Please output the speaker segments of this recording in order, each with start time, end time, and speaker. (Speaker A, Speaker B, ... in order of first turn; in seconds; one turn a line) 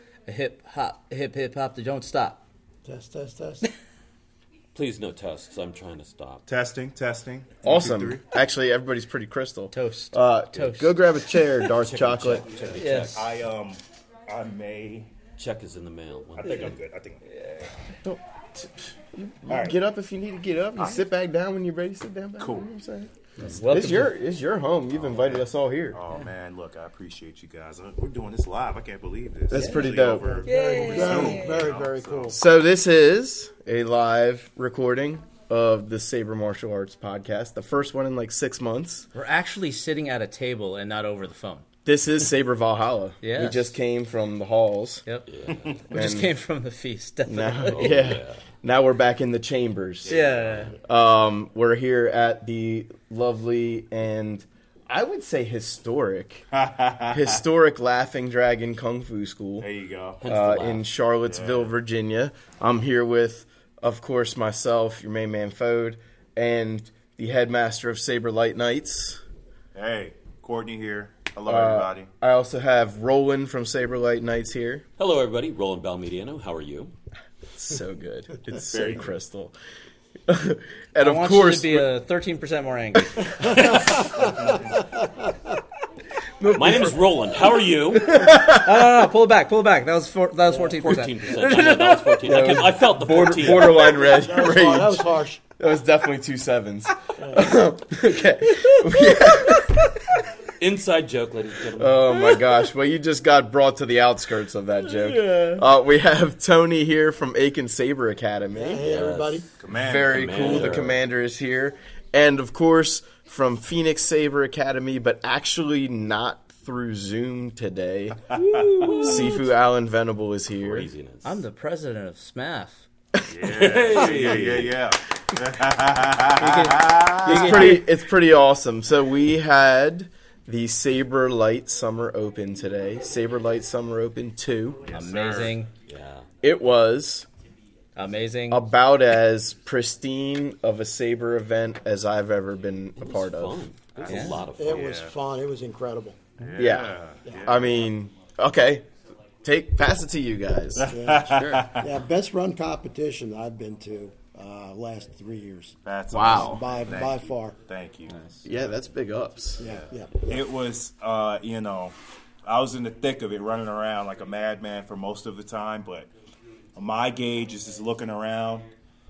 Speaker A: 0.3-2.4
Speaker B: 2.9-3.6
Speaker C: 4.8-6.5
Speaker D: 6.5-8.2
Speaker E: 7.6-12.6
Speaker A: 9.7-11.7
Speaker C: 11.7-13.3
Speaker D: 12.5-15.1
Speaker A: 12.7-13.2
Speaker C: 15.4-16.7
Speaker D: 16.4-17.7
Speaker E: 18.0-26.0
Speaker D: 19.5-19.8
Speaker D: 22.4-22.7
Speaker A: 23.4-24.1
Speaker D: 25.1-32.4
Speaker E: 29.5-30.5
Speaker B: 30.3-32.4
Speaker A: 30.4-31.6
Speaker E: 32.3-39.1
Speaker A: 39.1-41.7
Speaker E: 41.9-45.0
Speaker A: 43.2-43.7
Speaker A: 45.1-48.0
Speaker C: 45.3-45.7
Speaker E: 45.9-46.3
Speaker E: 47.3-56.5
Speaker C: 47.6-48.4
Speaker D: 50.1-50.7
Speaker A: 50.1-50.7
Speaker D: 56.5-57.4
Speaker E: 57.1-59.7
Speaker D: 59.6-60.2
Speaker C: 60.2-60.8
Speaker E: 60.2-69.2
Speaker D: 61.3-61.7
Speaker D: 69.8-72.1
Speaker E: 71.5-74.8
Speaker C: 75.0-76.9
Speaker E: 77.5-79.5
Speaker D: 78.7-79.0
Speaker E: 80.3-81.9
Speaker A: 81.0-83.5
Speaker E: 83.0-84.0
Speaker C: 83.5-84.0
Speaker B: 83.6-85.6
Speaker E: 86.4-87.4
Speaker C: 86.5-88.2
Speaker E: 87.9-88.8
Speaker A: 88.1-92.6
Speaker C: 90.6-93.9
Speaker E: 92.2-99.8
Speaker B: 94.0-95.4
Speaker D: 94.0-94.9
Speaker A: 98.5-99.9
Speaker C: 100.6-102.1
Speaker E: 101.8-108.8
Speaker A: 104.9-105.6
Speaker B: 108.5-109.5
Speaker C: 108.8-109.5
Speaker D: 109.6-110.8
Speaker E: 109.7-118.4
Speaker C: 110.0-111.0
Speaker A: 118.4-119.4
Speaker E: 118.9-120.9
Speaker C: 120.6-121.4
Speaker A: 121.2-122.9
Speaker D: 123.3-127.8
Speaker C: 123.4-124.7
Speaker A: 126.4-127.8
Speaker E: 127.2-134.9
Speaker D: 134.9-135.6
Speaker A: 134.9-135.7
Speaker C: 135.9-136.3
Speaker E: 136.4-137.3
Speaker A: 138.0-138.6
Speaker E: 138.5-143.7
Speaker C: 143.0-145.0
Speaker D: 144.0-145.1
Speaker A: 144.1-144.4
Speaker B: 144.3-146.3
Speaker D: 146.4-147.7
Speaker E: 146.6-148.9
Speaker E: 149.4-150.9
Speaker D: 150.8-151.9
Speaker B: 150.9-155.8
Speaker A: 151.3-151.7
Speaker D: 155.8-158.2
Speaker E: 156.1-156.7
Speaker B: 156.4-157.6
Speaker A: 158.1-158.3
Speaker E: 158.4-159.7
Speaker B: 159.6-160.4
Speaker D: 159.7-166.1
Speaker D: 166.8-168.7